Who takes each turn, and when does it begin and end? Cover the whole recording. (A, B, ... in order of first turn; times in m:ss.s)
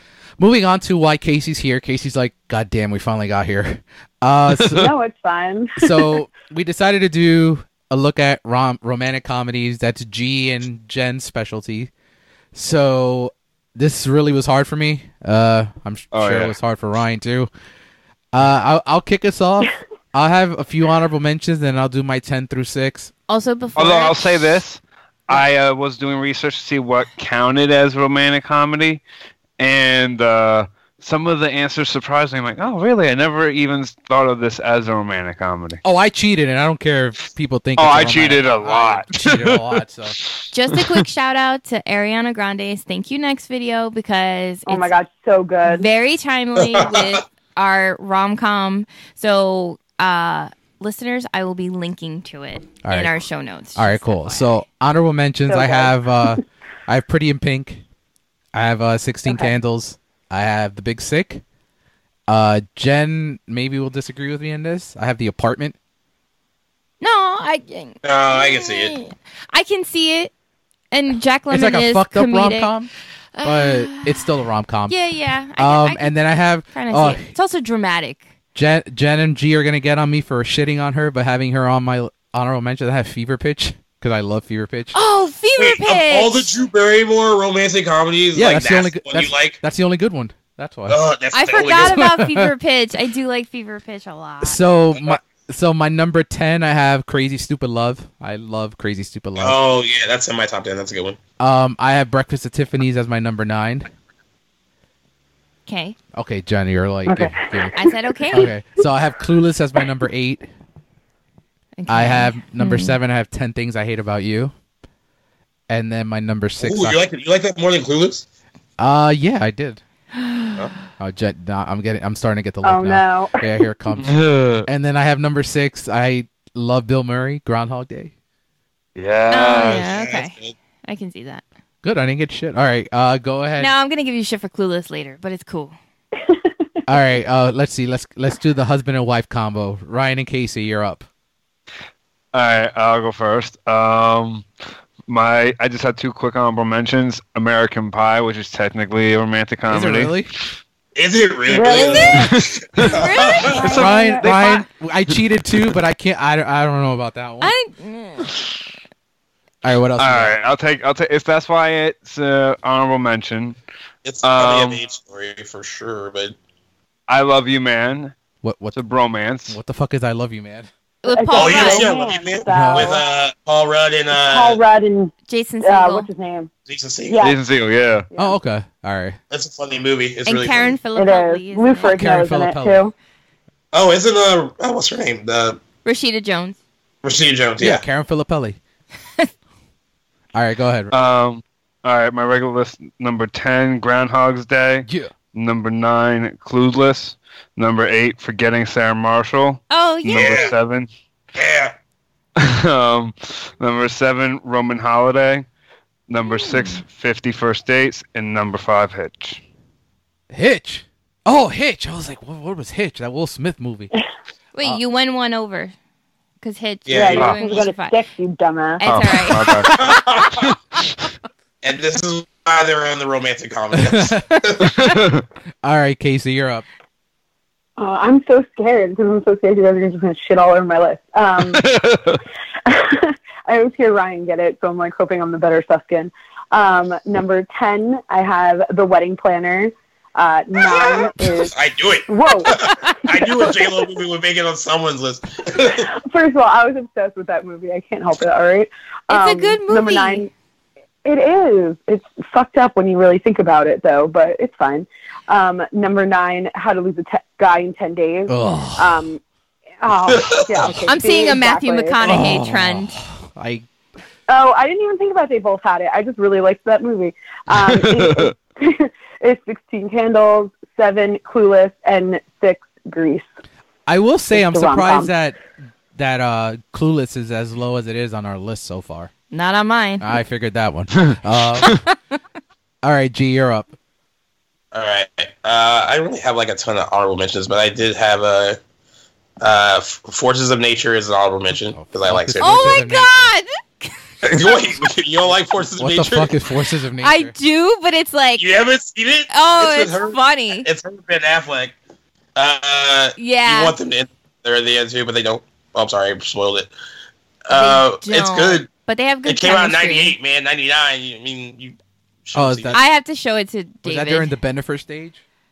0:00.4-0:04.9 A
0:04.6-0:04.8 B
0:04.7-0:06.0 C
0:05.8-0:11.9 A
0:12.5-0:17.5 A
0:16.1-0:16.5 B
0:18.3-0:23.1 A
0:23.3-0:24.4 D
0:23.8-0:29.0 B
0:29.6-0:35.8 B
0:35.8-0:40.2 A
0:37.8-0:40.3 B
0:40.5-0:44.9 D
0:44.7-0:45.9 C
0:45.6-0:54.5 D
0:46.7-0:47.0 E
0:52.8-0:53.2 A
0:53.8-0:57.8 A
0:55.5-0:56.3 C
0:58.5-1:01.4 A
1:02.3-1:05.8 A
1:07.0-1:10.3 D
1:08.0-1:09.0 E
1:10.9-1:12.7 D
1:11.5-1:12.9 A
1:13.3-1:14.3 D
1:13.4-1:15.0 A
1:14.9-1:16.1 D
1:15.6-1:17.3 A
1:16.7-1:18.2 D
1:18.5-1:25.0 A
1:24.9-1:26.5 D
1:25.6-1:29.6 E
1:28.3-1:31.0 A
1:30.9-1:32.1 E
1:31.3-1:34.6 D
1:31.8-1:32.5 A
1:34.4-1:39.6 A
1:39.4-1:41.2 E
1:41.4-1:43.9 A
1:45.7-1:46.0 D
1:46.1-1:47.7 A
1:47.1-1:47.7 C
1:47.8-1:48.5 D
1:48.3-1:50.4 A
1:51.8-1:53.0 D
1:51.9-1:54.5 A
1:55.7-1:57.0 A
1:56.6-1:58.2 E
1:58.8-1:59.8 A
2:00.2-2:00.6 D
2:01.0-2:08.1 A
2:02.6-2:03.6 C
2:04.0-2:04.7 B
2:09.0-2:09.8 B
2:09.3-2:11.4 D
2:09.6-2:10.5 E
2:11.8-2:13.7 A
2:13.6-2:15.7 D
2:16.9-2:21.1 A
2:22.3-2:24.5 B
2:25.1-2:30.2 B
2:29.7-2:30.3 A
2:30.9-2:33.7 E
2:31.5-2:32.3 C
2:31.6-2:34.0 D
2:32.1-2:32.9 B
2:33.4-2:34.3 C
2:33.6-2:34.6 B
2:33.7-2:37.5 A
2:37.4-2:38.3 D
2:39.6-2:40.3 A
2:40.0-2:43.6 B
2:44.0-2:46.4 E
2:44.2-2:44.8 B
2:47.1-2:48.1 B
2:48.4-2:48.8 A
2:48.7-2:49.6 B
2:49.5-2:50.7 A
2:51.0-2:51.9 D
2:51.1-2:53.0 C
2:51.3-2:54.6 E
2:52.5-2:53.0 A
2:54.1-2:56.5 C
2:55.3-2:56.1 D
2:56.7-2:57.2 E
2:57.1-2:57.4 C
2:57.2-2:58.1 B
2:58.1-2:59.2 A
2:59.3-3:00.8 E
3:00.2-3:02.0 D
3:01.0-3:02.9 C
3:01.8-3:02.8 A
3:03.7-3:05.6 E
3:05.8-3:06.6 D
3:07.0-3:07.8 E
3:07.6-3:08.6 A
3:10.3-3:10.9 A
3:10.9-3:20.9 B
3:14.8-3:15.1 A
3:19.7-3:20.5 D
3:20.1-3:20.5 E
3:21.3-3:21.7 E
3:22.4-3:25.4 B
3:26.1-3:29.4 B
3:26.3-3:26.8 D
3:30.3-3:33.9 A
3:34.5-3:35.7 D
3:36.4-3:38.0 D
3:36.9-3:37.3 E
3:36.9-3:38.8 C
3:38.8-3:39.8 D
3:38.8-3:39.8 B
3:39.6-3:40.5 E
3:40.4-3:40.8 B
3:41.6-3:44.8 E
3:43.7-3:45.0 A
3:44.6-3:45.2 B
3:45.6-3:46.6 A
3:47.8-3:51.6 C
3:51.4-3:52.2 B
3:52.6-4:01.5 C
4:00.6-4:05.9 E
4:02.1-4:03.7 C
4:05.5-4:10.3 C
4:09.1-4:10.3 D
4:11.0-4:19.2 C
4:18.3-4:19.1 A
4:19.8-4:22.0 C
4:20.1-4:20.7 E
4:20.9-4:23.0 D
4:22.0-4:23.6 A
4:24.3-4:33.2 C
4:27.6-4:28.3 B
4:33.9-4:35.4 A
4:34.3-4:35.1 C
4:35.9-4:39.1 A
4:39.3-4:40.1 D
4:40.0-4:41.8 A
4:41.6-4:41.9 D
4:42.8-4:43.7 A
4:44.7-4:48.6 E
4:49.4-4:52.8 E
4:51.7-4:53.3 A
4:52.4-4:54.6 D
4:54.2-4:56.3 E
4:55.8-4:57.3 A
4:57.0-4:58.5 D
4:58.4-5:01.7 E
4:59.3-5:00.7 D
5:02.4-5:06.7 E
5:03.2-5:03.8 D
5:07.5-5:08.7 E
5:07.5-5:10.2 D
5:09.2-5:12.8 E
5:12.3-5:12.8 A
5:12.7-5:14.3 D
5:13.8-5:15.2 A